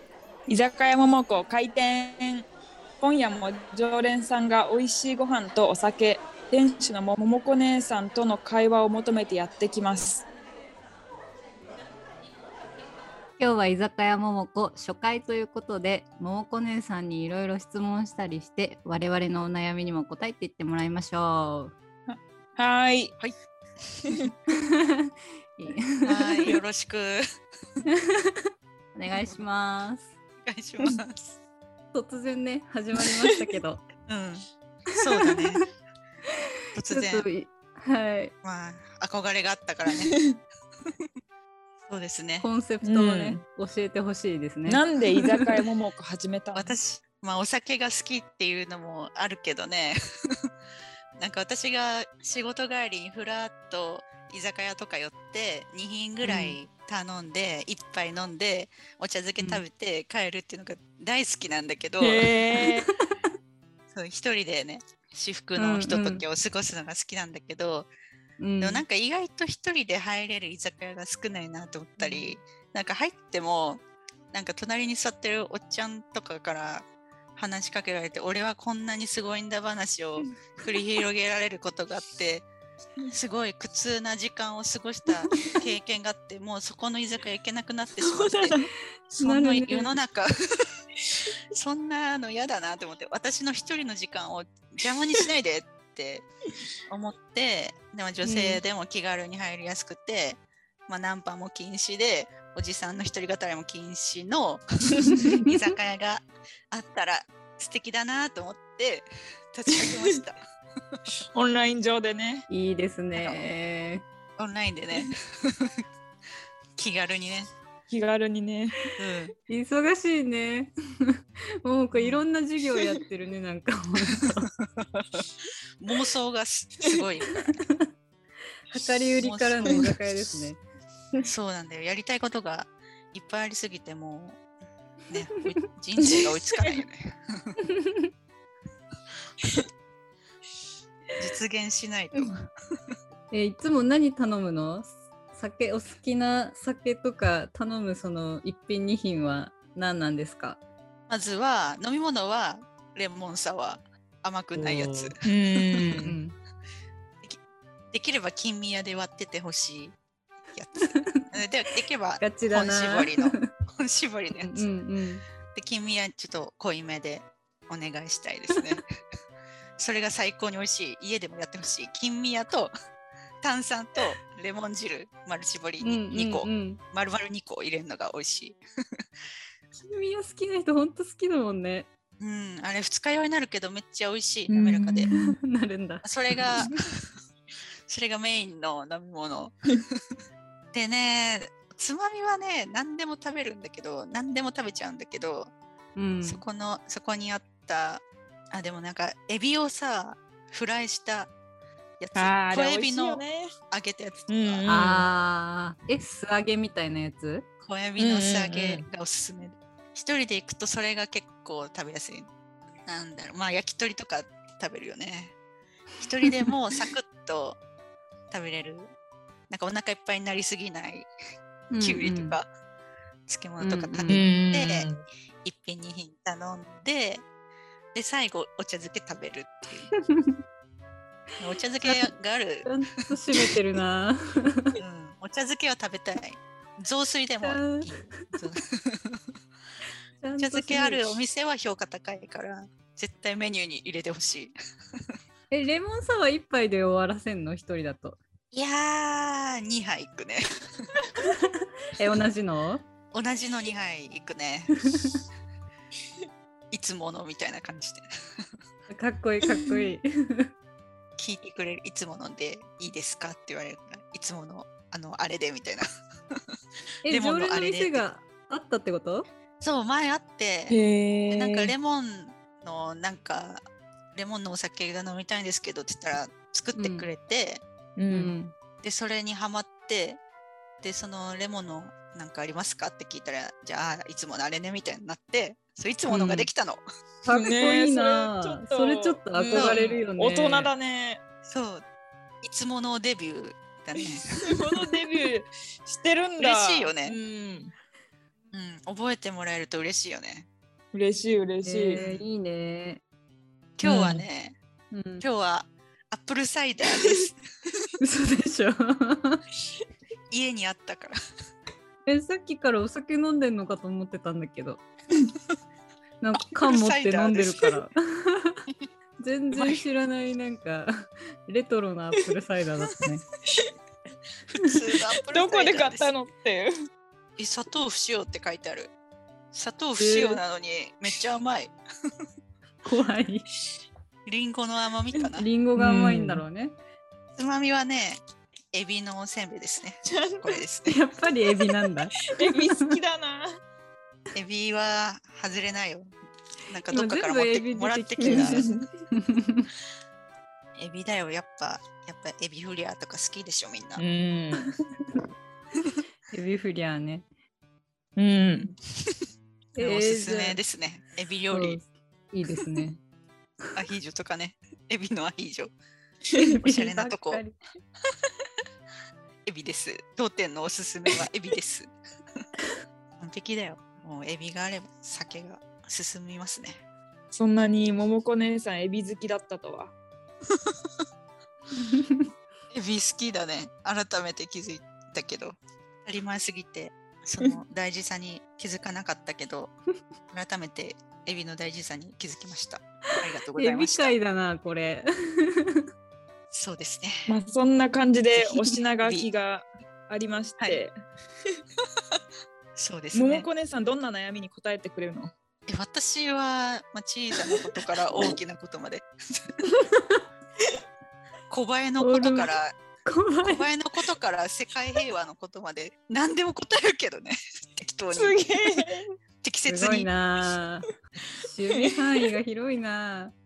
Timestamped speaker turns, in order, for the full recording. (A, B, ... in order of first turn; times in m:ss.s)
0:00.5-0:02.5 A
0:03.0-0:10.2 A
0:13.4-0:21.7 B
0:22.1-0:23.2 A
0:24.5-0:26.6 B
0:26.0-0:27.3 C
0:27.9-0:30.1 B
0:30.4-0:31.4 C
0:31.9-0:33.8 B
0:34.0-0:35.7 C
0:36.7-0:37.2 C
0:36.8-0:38.3 B
0:38.4-0:40.1 C
0:40.0-0:40.3 A
0:40.8-0:41.1 C
0:41.8-0:42.5 C
0:42.4-0:44.9 B
0:42.8-0:43.4 A
0:44.7-0:46.7 A
0:46.5-0:50.5 C
0:51.2-1:02.3 C
0:56.2-0:56.5 B
0:59.4-0:59.6 B
1:02.0-1:02.9 A
1:02.6-1:03.1 B
1:03.9-1:07.9 C
1:05.6-1:06.2 B
1:08.4-1:08.8 B
1:08.6-1:22.5 C
1:23.1-1:28.6 C
1:28.0-1:28.7 A
1:29.1-1:30.7 C
1:29.2-1:29.9 B
1:31.5-1:36.2 C
1:36.9-1:50.4 C
1:38.2-1:38.6 B
1:45.2-1:45.6 B
1:51.3-1:52.4 A
1:52.5-1:54.0 B
1:53.1-1:53.5 C
1:54.4-1:55.8 C
1:56.8-1:57.5 C
1:57.9-1:58.8 A
1:59.0-1:59.3 C
1:59.5-2:04.5 B
2:04.6-2:05.2 C
2:05.8-2:07.7 C
2:08.7-2:10.6 B
2:09.2-2:09.9 C
2:11.2-2:14.4 C
2:15.1-2:17.5 C
2:16.1-2:16.8 A
2:17.6-2:18.1 B
2:21.2-2:22.3 C
2:23.3-2:30.6 B
2:31.1-2:36.1 C
2:34.5-2:35.2 B
2:35.2-2:36.2 A
2:35.8-2:36.4 B
2:37.9-2:40.0 C
2:40.5-2:44.7 C
2:40.8-2:41.3 B
2:42.2-2:43.5 B
2:44.4-2:45.2 B
2:45.5-2:48.8 C
2:49.8-2:52.7 C
2:53.4-2:59.0 C
2:55.8-2:56.8 B
2:59.8-3:01.9 B
3:02.2-3:05.1 C
3:04.5-3:05.3 A
3:05.1-3:06.7 B
3:06.0-3:07.1 C
3:07.9-3:10.0 C
3:10.7-3:15.5 C
3:16.0-3:16.4 B
3:16.2-3:21.3 C
3:22.0-3:24.6 C
3:22.2-3:23.5 A
3:24.3-3:25.1 A
3:24.7-3:27.5 B
3:27.6-3:32.3 C
3:28.0-3:28.8 A
3:32.8-3:35.3 C
3:36.0-3:37.6 C
3:38.3-3:38.9 C
3:39.5-3:41.1 C
3:41.7-3:42.4 B
3:41.8-3:42.4 C
3:43.3-3:44.9 C
3:43.6-3:44.2 B
3:44.1-3:45.0 A
3:45.4-3:47.2 C
3:47.9-3:49.9 C
3:49.9-3:50.3 B
3:51.4-3:52.7 C
3:52.6-3:54.8 B
3:54.8-3:59.2 C
3:57.4-3:58.3 B
4:00.2-4:01.1 B
4:00.4-4:04.5 C
4:05.5-4:08.2 B
4:08.5-4:10.4 C
4:11.2-4:12.9 B
4:13.1-4:14.7 C
4:14.9-4:15.2 B
4:16.7-4:18.5 C
4:18.9-4:20.5 B
4:21.2-4:26.4 C
4:27.0-4:29.3 B
4:27.1-4:28.0 C
4:29.6-4:30.8 C
4:30.7-4:31.7 A
4:31.3-4:33.6 C
4:34.1-4:37.6 C
4:36.8-4:37.1 B
4:38.0-4:38.3 A
4:38.1-4:38.6 B
4:38.8-4:40.2 C
4:40.8-4:46.8 C
4:47.2-4:50.7 B
4:47.3-4:51.2 A
4:49.5-4:49.8 C
4:51.4-4:51.8 C
4:52.4-4:55.0 C
4:54.4-4:57.7 A
4:56.4-4:57.2 C
4:58.5-5:00.5 C
5:00.9-5:02.0 A
5:01.6-5:03.0 B
5:02.0-5:02.2 C
5:03.8-5:04.6 C
5:03.8-5:04.2 B
5:04.9-5:05.2 B
5:05.2-5:07.9 C
5:08.0-5:09.4 B
5:10.3-5:11.2 C
5:12.0-5:14.8 B
5:16.2-5:18.6 B
5:16.3-5:17.8 C
5:19.2-5:23.2 B
5:24.5-5:26.1 C
5:25.3-5:26.7 A
5:27.4-5:28.9 C
5:29.5-5:31.7 C
5:30.0-5:30.4 B
5:32.8-5:33.4 B
5:34.2-5:35.5 C
5:35.4-5:36.8 B
5:35.8-5:36.4 A
5:37.3-5:41.0 C
5:40.1-5:40.6 A
5:40.9-5:42.9 B
5:41.8-5:43.5 A
5:44.3-5:46.1 C
5:46.7-5:48.7 C
5:46.9-5:49.7 B
5:48.2-5:48.8 A
5:50.8-5:54.0 C
5:54.0-5:54.8 A
5:56.3-5:57.2 B
5:58.2-5:58.7 A
5:58.6-5:59.3 C
5:59.8-6:00.6 B
5:59.8-6:01.8 C
6:01.5-6:03.0 B
6:03.7-6:05.7 C
6:06.3-6:07.6 B
6:06.6-6:07.4 C
6:09.4-6:11.9 C
6:13.2-6:16.8 C
6:17.3-6:19.9 A
6:20.5-6:21.0 C
6:21.8-6:22.3 B
6:22.7-6:29.8 C
6:30.3-6:34.2 C
6:33.6-6:35.8 B
6:36.5-6:37.3 C
6:37.3-6:41.0 A
6:38.3-6:39.3 C
6:42.8-6:43.4 C
6:43.1-6:45.3 A
6:45.7-6:49.6 C
6:49.9-6:50.2 B
6:51.5-6:52.8 C
6:52.0-6:53.7 B
6:53.4-6:58.5 C
6:58.1-6:59.1 A
6:59.4-7:00.1 C
6:59.6-7:00.9 B
7:01.4-7:03.3 B